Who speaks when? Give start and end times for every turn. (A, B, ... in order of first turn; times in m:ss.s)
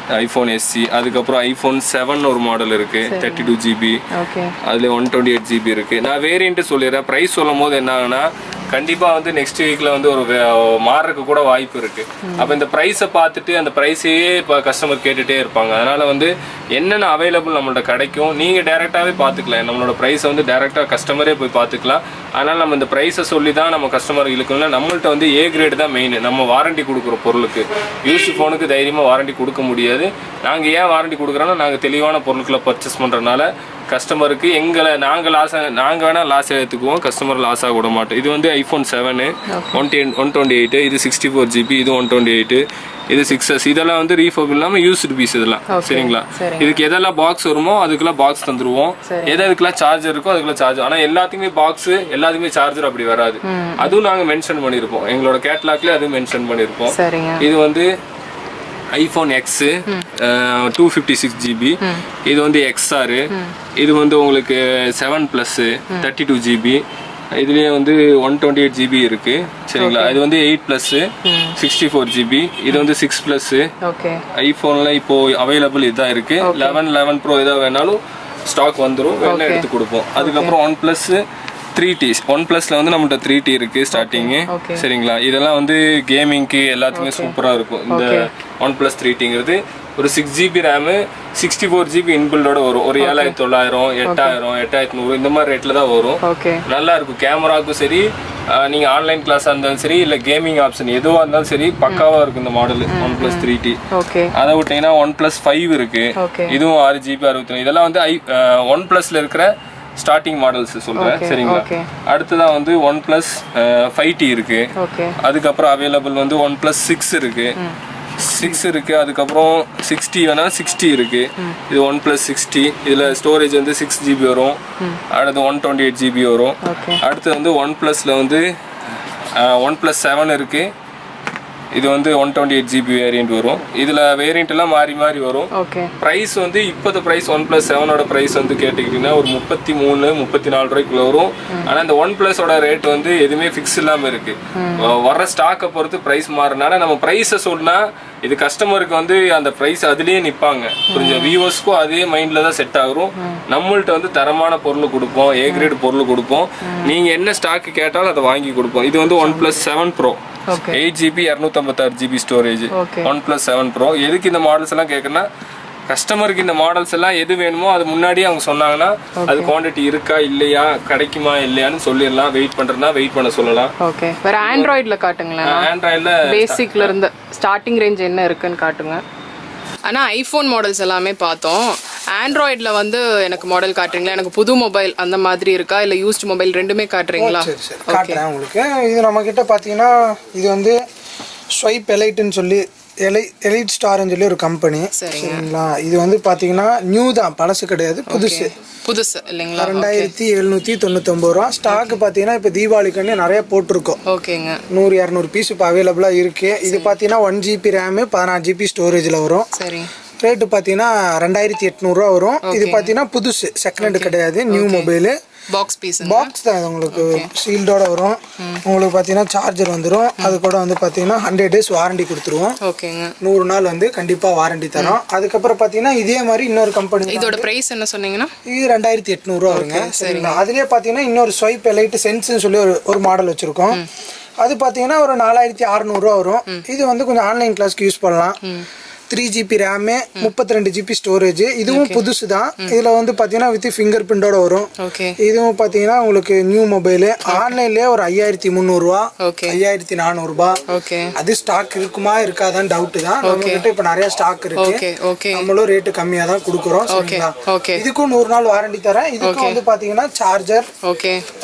0:00.1-0:04.0 A
0:03.1-0:03.5 B
0:04.1-0:04.5 B
0:04.6-0:57.9 A
0:39.5-0:39.8 B
0:45.7-0:46.8 B
0:49.1-0:49.4 B
0:53.5-0:54.0 B
0:56.9-0:57.4 B
0:58.9-1:06.8 A
1:07.3-1:13.7 A
1:09.8-1:10.2 B
1:11.2-1:11.5 B
1:13.8-1:14.2 B
1:14.3-1:21.2 A
1:16.4-1:16.8 B
1:19.2-1:19.6 B
1:20.2-1:20.5 B
1:21.7-1:43.8 A
1:23.9-1:24.8 B
1:26.9-1:27.3 B
1:27.9-1:28.3 B
1:33.0-1:33.4 B
1:34.0-1:34.4 B
1:36.2-1:36.6 B
1:42.9-1:44.3 B
1:44.3-1:57.6 A
1:46.2-1:46.6 B
1:51.0-1:51.9 B
1:54.8-1:55.1 B
1:58.2-2:04.6 A
2:05.1-2:10.7 A
2:06.6-2:07.0 B
2:11.7-2:45.2 A
2:15.6-2:15.9 B
2:24.6-2:24.8 B
2:30.9-2:31.3 B
2:36.6-2:36.9 B
2:39.2-2:39.4 B
2:40.5-2:40.8 B
2:42.7-2:43.1 B
2:45.9-2:53.7 A
2:49.2-2:49.5 B
2:53.8-2:55.7 B
2:54.4-2:54.8 A
2:55.4-2:56.9 A
2:56.2-2:59.0 B
2:59.8-3:08.2 B
3:07.2-3:10.8 C
3:11.5-3:18.5 C
3:15.0-3:15.4 B
3:18.1-3:20.1 B
3:19.6-3:24.0 C
3:21.7-3:22.0 B
3:24.1-3:24.6 B
3:24.7-3:29.5 C
3:29.6-3:29.9 B
3:30.2-3:35.2 C
3:32.4-3:32.9 B
3:33.8-3:34.9 B
3:35.5-3:36.3 B
3:36.0-3:42.6 C
3:36.9-3:37.3 B
3:42.6-3:43.1 B
3:43.2-3:47.4 C
3:47.1-3:48.3 B
3:48.4-3:53.8 C
3:49.5-3:50.4 B
3:54.4-3:58.4 C
3:59.1-4:04.7 C
4:01.7-4:02.0 B
4:04.8-4:05.1 B
4:05.2-4:10.6 C
4:09.2-4:09.6 B
4:10.7-4:11.1 B
4:11.2-4:14.8 C
4:13.2-4:13.6 B
4:14.6-4:15.4 B
4:15.3-4:20.7 C
4:16.9-4:17.8 B
4:19.2-4:19.6 B
4:20.8-4:21.2 B